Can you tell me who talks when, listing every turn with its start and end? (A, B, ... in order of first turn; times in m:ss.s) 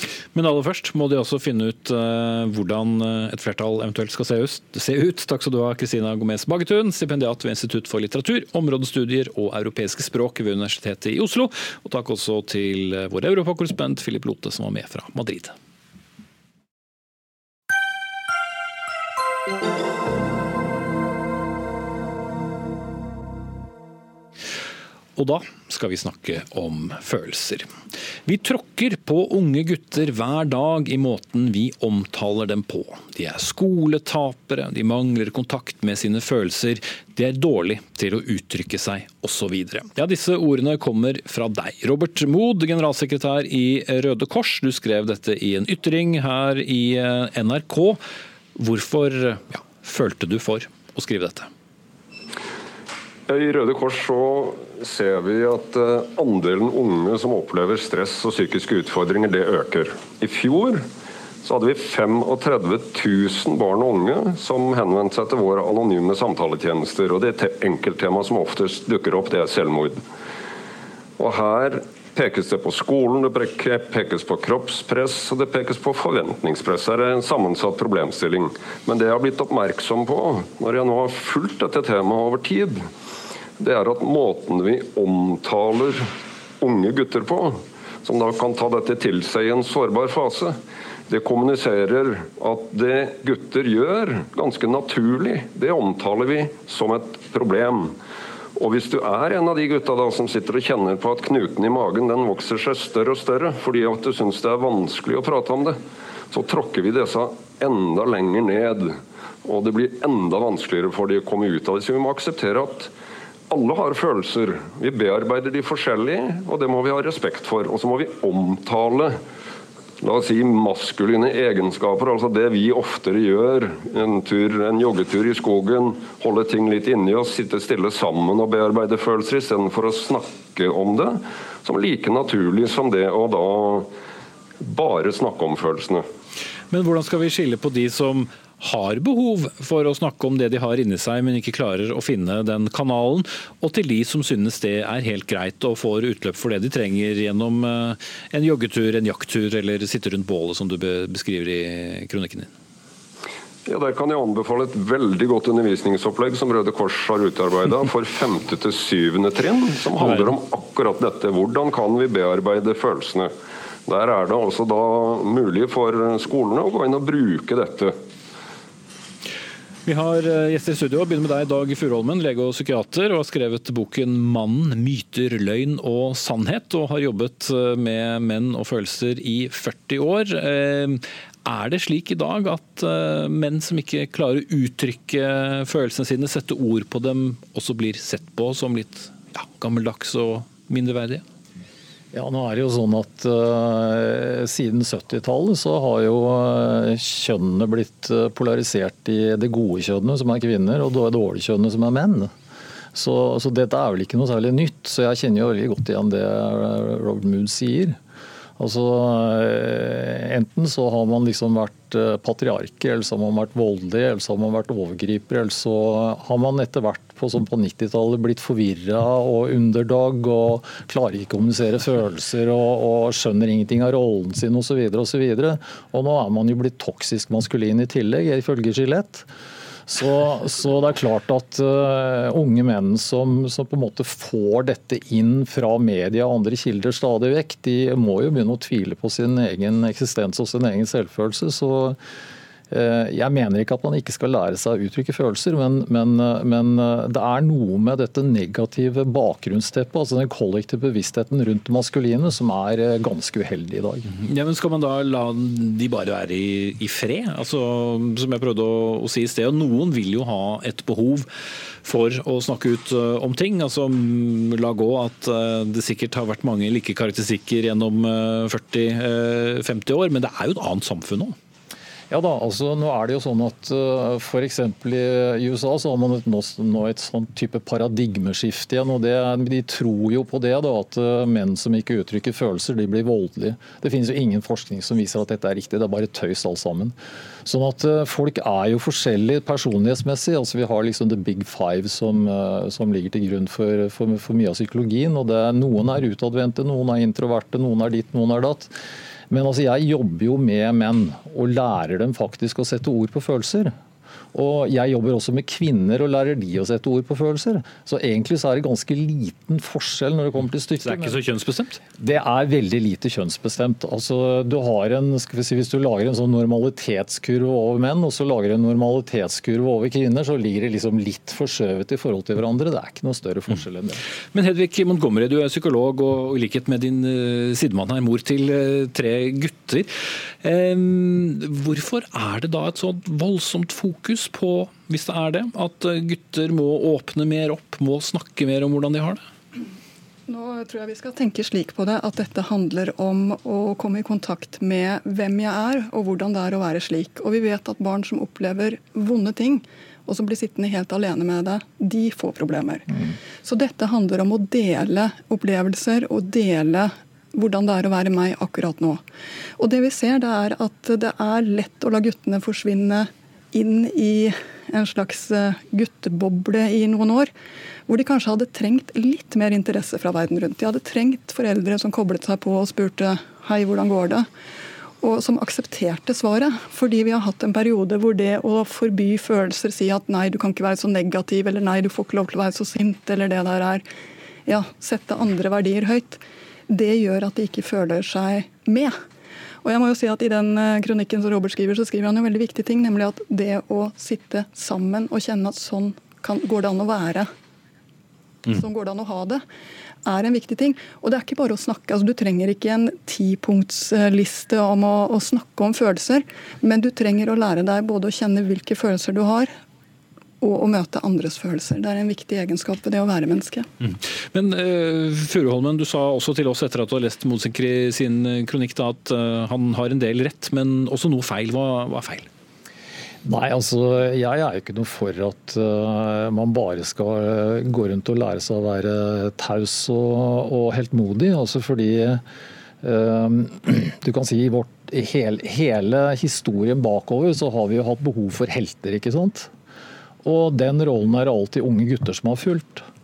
0:00.3-0:15.6 A
0:25.2-0:27.7 A
0:28.3-0:48.0 A
0:48.6-0:51.5 A
0:53.3-1:00.8 B
1:01.4-1:10.0 B
1:11.2-1:22.9 B
1:23.6-1:30.6 B
1:31.1-1:37.9 B
1:38.6-1:45.8 B
1:46.3-1:52.9 B
1:53.5-1:59.2 B
2:00.0-2:13.9 B
2:14.6-2:16.0 B
2:16.7-2:32.5 A
2:33.7-2:43.3 B
2:40.0-2:40.3 A
2:43.9-2:48.0 B
2:49.9-3:11.2 A
3:12.1-3:22.3 C
3:22.9-3:28.0 C
3:28.6-3:49.3 C
3:49.9-4:02.0 C
4:02.7-4:14.1 C
4:14.1-4:21.3 A
4:21.8-4:31.4 A
4:32.1-4:46.9 C
4:47.4-4:58.7 C
4:59.3-5:03.8 C
5:04.3-5:11.2 C
5:10.8-5:11.8 A
5:12.0-5:24.0 C
5:24.3-5:39.2 A
5:40.3-5:59.0 D
5:59.6-6:07.3 D
6:07.9-6:14.3 D
6:15.0-6:23.8 D
6:24.5-6:29.0 D
6:29.6-6:37.3 D
6:38.5-6:39.4 D
6:40.0-6:49.5 D
6:50.4-6:53.7 D
6:53.8-7:02.3 A
7:03.2-7:12.2 C
7:12.8-7:19.5 C
7:20.2-7:22.9 C